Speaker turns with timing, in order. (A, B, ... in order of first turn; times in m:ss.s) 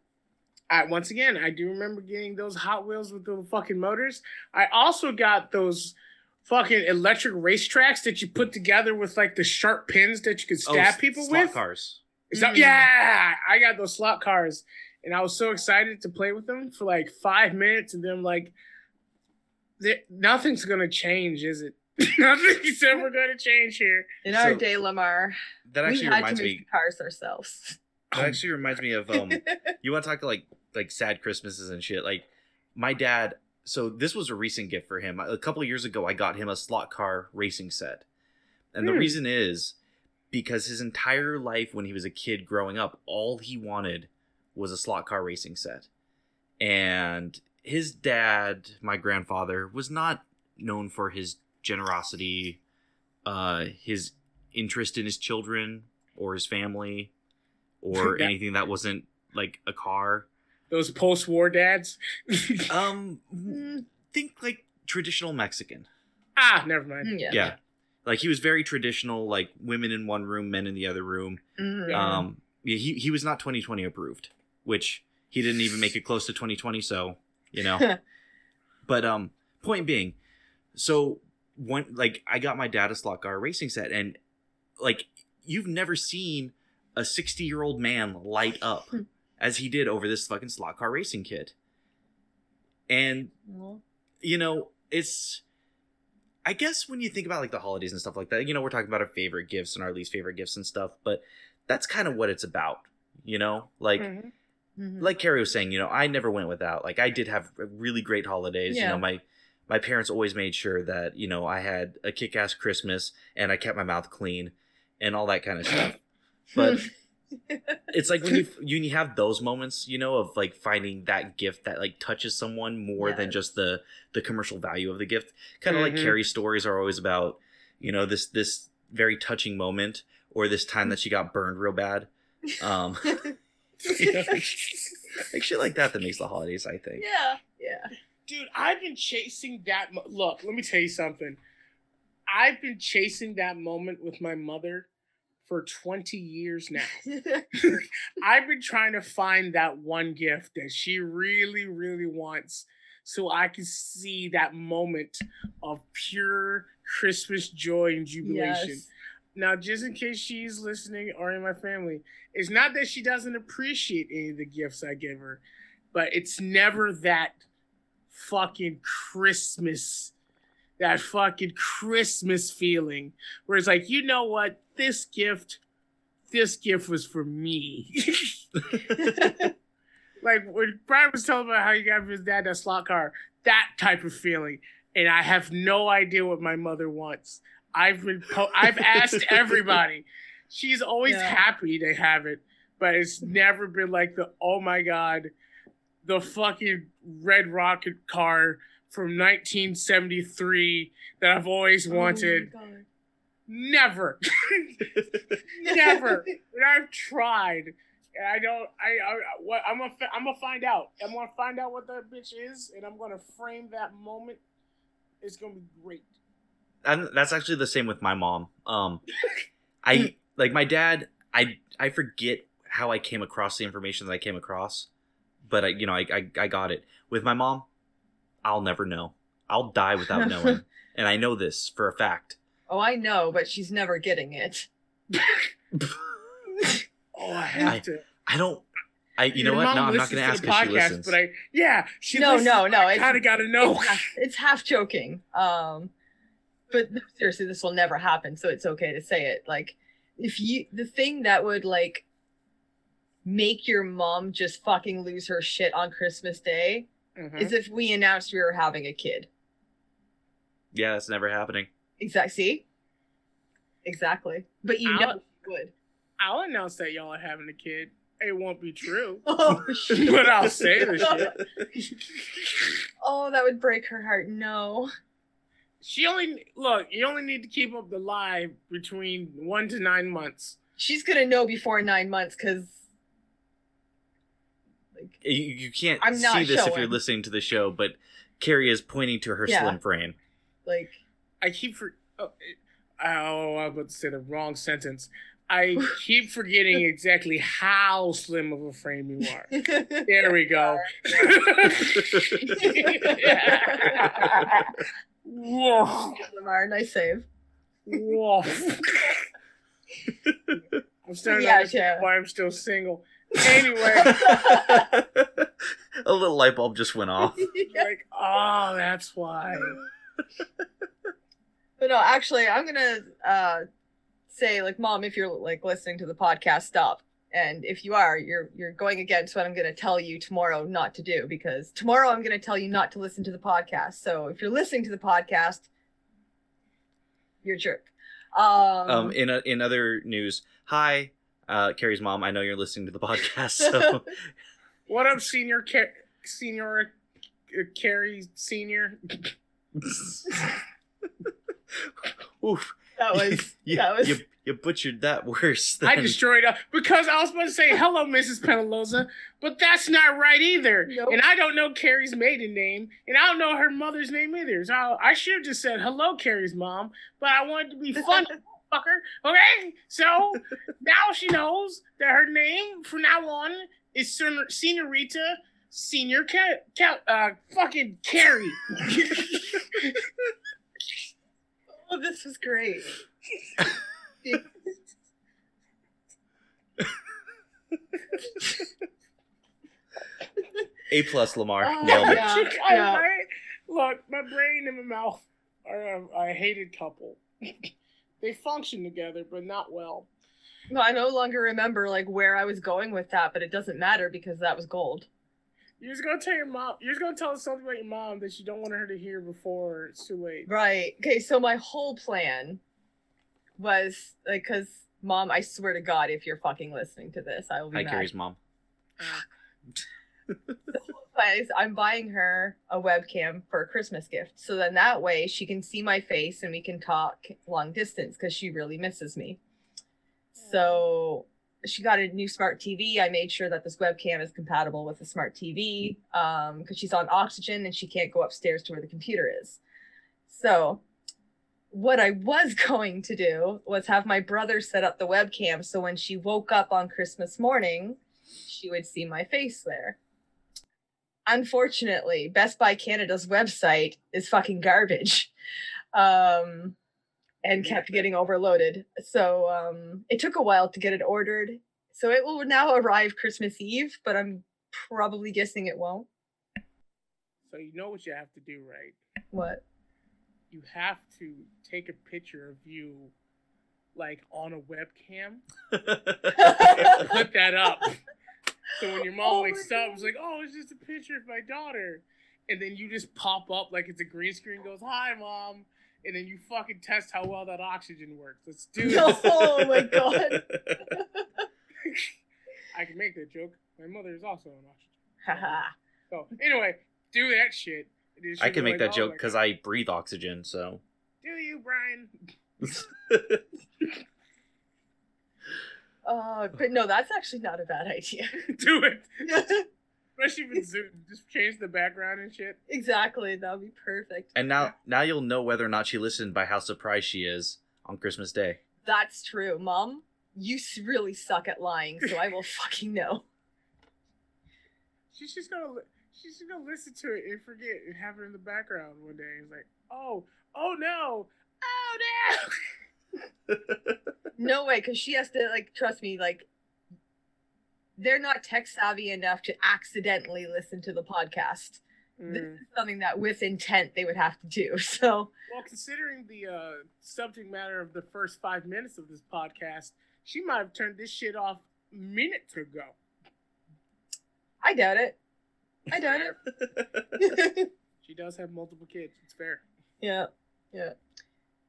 0:00.7-0:11.6 A
0:10.6-0:12.0 B
0:12.3-0:18.5 A
0:12.4-0:12.9 C
0:19.8-0:24.2 A
0:24.2-0:27.8 C
0:24.3-0:24.6 B
0:25.6-0:26.6 B
0:28.1-0:38.1 B
0:29.2-0:29.7 C
0:38.7-0:39.8 B
0:38.8-0:39.2 A
0:40.3-0:45.9 B
0:46.6-0:52.6 B
0:53.2-0:57.1 B
0:57.8-1:00.3 B
0:58.0-0:58.3 A
1:00.7-1:02.7 A
1:02.7-1:05.9 B
1:03.5-1:03.8 C
1:06.4-1:07.6 A
1:07.0-1:07.4 C
1:07.3-1:17.9 B
1:11.6-1:12.2 C
1:11.9-1:12.2 A
1:18.9-1:20.2 B
1:20.8-1:24.2 B
1:24.8-1:31.5 B
1:32.9-1:33.3 B
1:33.5-1:33.8 C
1:34.2-1:35.4 B
1:36.4-1:44.1 B
1:44.0-1:44.3 A
1:44.8-1:45.1 C
1:45.0-1:56.0 B
1:48.7-1:49.0 C
1:56.5-1:56.9 B
1:57.5-1:57.8 C
1:57.9-2:13.3 B
2:03.0-2:03.4 C
2:05.7-2:06.2 A
2:13.0-2:13.3 C
2:13.9-2:15.0 A
2:14.0-2:14.5 B
2:15.3-2:17.0 B
2:17.0-2:17.9 C
2:18.3-2:21.4 A
2:22.3-2:24.9 A
2:25.4-2:27.0 A
2:27.1-2:27.8 C
2:27.6-2:45.4 A
2:38.2-2:38.9 C
2:45.9-2:47.4 A
2:48.1-2:50.1 A
2:50.8-2:55.6 A
2:56.3-2:58.4 A
2:58.9-2:59.5 C
3:00.2-3:15.3 A
3:08.6-3:09.8 B
3:11.0-3:11.4 C
3:16.0-3:22.5 A
3:21.9-3:22.8 C
3:23.5-3:24.8 A
3:25.6-3:26.2 C
3:25.6-3:34.4 A
3:35.2-3:36.1 A
3:36.8-3:39.0 B
3:39.8-3:44.9 B
3:45.5-3:47.7 B
3:48.4-3:52.4 B
3:50.2-3:50.6 C
3:52.7-3:54.7 C
3:57.1-3:58.0 A
3:57.6-3:58.6 B
3:59.2-4:01.1 B
3:59.4-4:04.1 A
4:02.1-4:05.9 C
4:06.7-4:12.0 C
4:13.2-4:19.3 C
4:17.2-4:17.6 A
4:20.7-4:21.7 B
4:22.0-4:22.6 C
4:23.8-4:25.7 C
4:24.9-4:25.2 A
4:26.2-4:29.2 A
4:29.3-4:30.1 C
4:29.9-4:31.3 A
4:30.9-4:31.4 C
4:31.0-4:31.7 B
4:32.2-4:32.8 A
4:33.0-4:34.9 C
4:35.8-4:40.6 A
4:40.8-4:42.8 C
4:45.2-4:50.2 B
4:46.0-4:47.0 C
4:49.5-4:49.8 C
4:50.6-4:51.0 C
4:51.4-5:06.2 A
4:59.5-5:01.7 C
5:02.0-5:02.6 B
5:02.4-5:04.5 C
5:06.2-5:07.3 C
5:07.9-5:09.2 A
5:10.5-5:10.8 B
5:11.0-5:14.2 A
5:11.3-5:12.1 C
5:13.8-5:14.9 C
5:14.0-5:17.5 B
5:17.4-5:17.8 C
5:17.6-5:19.8 A
5:21.8-5:23.6 C
5:24.3-5:35.6 C
5:37.4-5:39.2 C
5:38.9-5:44.2 B
5:43.6-5:44.0 C
5:44.9-5:47.0 A
5:47.5-5:49.3 A
5:49.8-5:50.4 B
5:51.7-5:56.2 B
5:53.0-5:54.2 C
5:55.8-6:19.2 A
6:00.9-6:01.2 C
6:21.8-6:22.9 C
6:30.9-6:32.3 B
6:31.6-6:33.0 C
6:31.8-6:37.7 A
6:38.2-6:40.1 A
6:40.7-6:45.1 C
6:45.8-6:50.5 A
6:50.5-6:52.6 C
6:53.6-6:58.1 C
6:57.7-6:58.4 B
7:00.3-7:00.6 B
7:00.8-7:09.4 C
7:10.4-7:19.6 C
7:10.4-7:10.8 A
7:20.3-7:20.8 C
7:21.7-7:30.0 C
7:31.3-7:35.3 C
7:35.9-7:36.8 C
7:37.4-7:46.1 C
7:37.6-7:38.1 A
7:47.5-7:49.0 A
7:49.3-7:49.6 C
7:50.5-7:53.1 A
7:53.9-7:55.4 A
7:55.7-7:56.5 B
7:56.4-7:57.1 C
7:56.7-7:58.0 A
7:58.8-8:09.6 A
7:59.2-8:00.0 C
8:08.8-8:11.2 C
8:09.6-8:11.0 B
8:11.8-8:12.1 A
8:12.7-8:19.4 A
8:15.2-8:15.7 C
8:18.4-8:20.8 B
8:21.2-8:22.1 A
8:22.6-8:23.4 B
8:26.0-8:28.4 C
8:28.4-8:29.1 A
8:29.2-8:29.6 C
8:30.2-8:32.6 A
8:32.7-8:34.3 C
8:34.4-8:38.6 B
8:38.8-8:43.2 C
8:45.1-8:52.5 A
8:53.5-8:54.0 B
8:54.4-8:56.5 C
8:58.0-9:05.3 C
9:02.2-9:02.6 A
9:05.5-9:12.9 A
9:14.6-9:15.2 C
9:15.9-9:16.4 C
9:16.1-9:16.3 A
9:16.6-9:17.1 B
9:17.2-9:17.7 C
9:18.0-9:19.6 A
9:20.0-9:20.9 C